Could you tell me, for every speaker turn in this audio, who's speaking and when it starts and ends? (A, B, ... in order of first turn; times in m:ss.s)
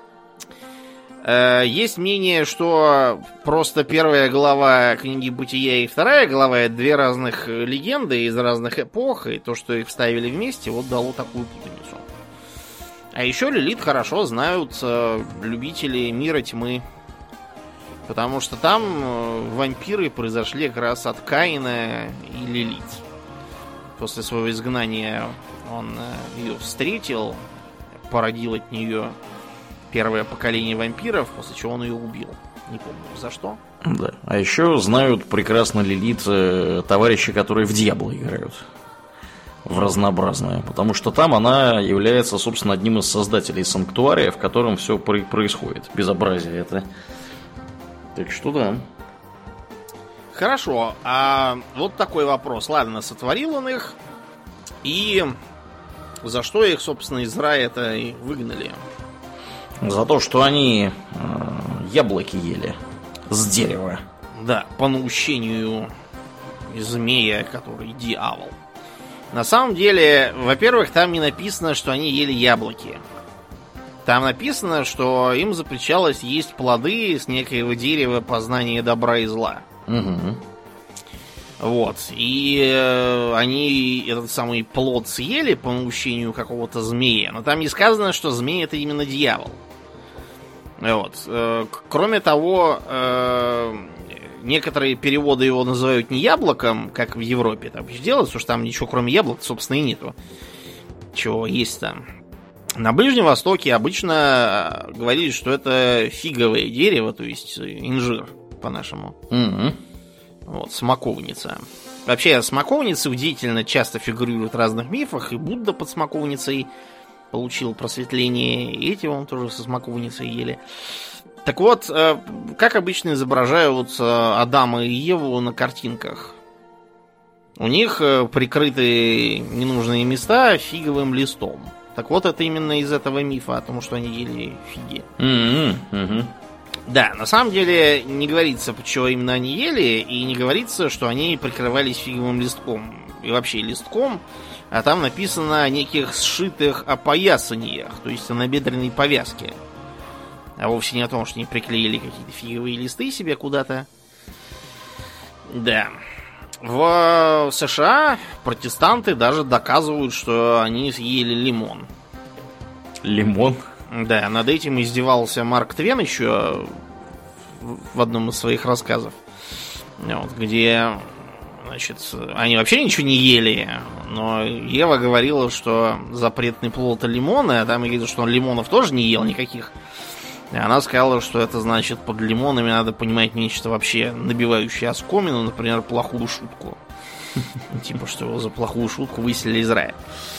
0:01.2-0:12.1 A
0:13.2-0:16.8 A
0:18.1-0:23.0 A
0:24.0-0:27.4 A
0:28.1-0:29.2 A
0:29.9-0:33.6 A
0:33.8-0:38.7 B
0:39.6-0:46.9 B
0:39.7-0:40.0 A
0:48.1-0:48.9 B
0:50.3-0:54.0 A
0:54.8-0:55.4 A
0:56.2-0:58.8 A
0:59.8-1:02.8 B
1:03.3-1:04.0 B
1:04.4-1:05.9 A
1:06.7-1:08.6 A
1:09.3-1:13.0 A
1:14.0-1:19.7 A
1:19.9-1:20.4 B
1:21.6-1:29.6 A
1:30.8-1:40.2 A
1:41.1-1:42.0 A
1:42.8-1:49.2 A
1:49.3-1:49.8 B
1:50.5-1:56.7 A
1:57.3-2:00.6 A
2:01.4-2:06.4 A
2:07.6-2:15.1 A
2:15.2-2:16.3 B
2:16.9-2:29.6 A
2:30.6-2:33.9 A
2:35.5-2:35.9 A
2:36.6-2:41.9 A
2:43.0-2:43.6 B
2:43.9-2:46.8 A
2:47.6-2:49.2 A
2:50.0-2:59.7 A
3:00.5-3:06.8 A
3:07.7-3:10.0 A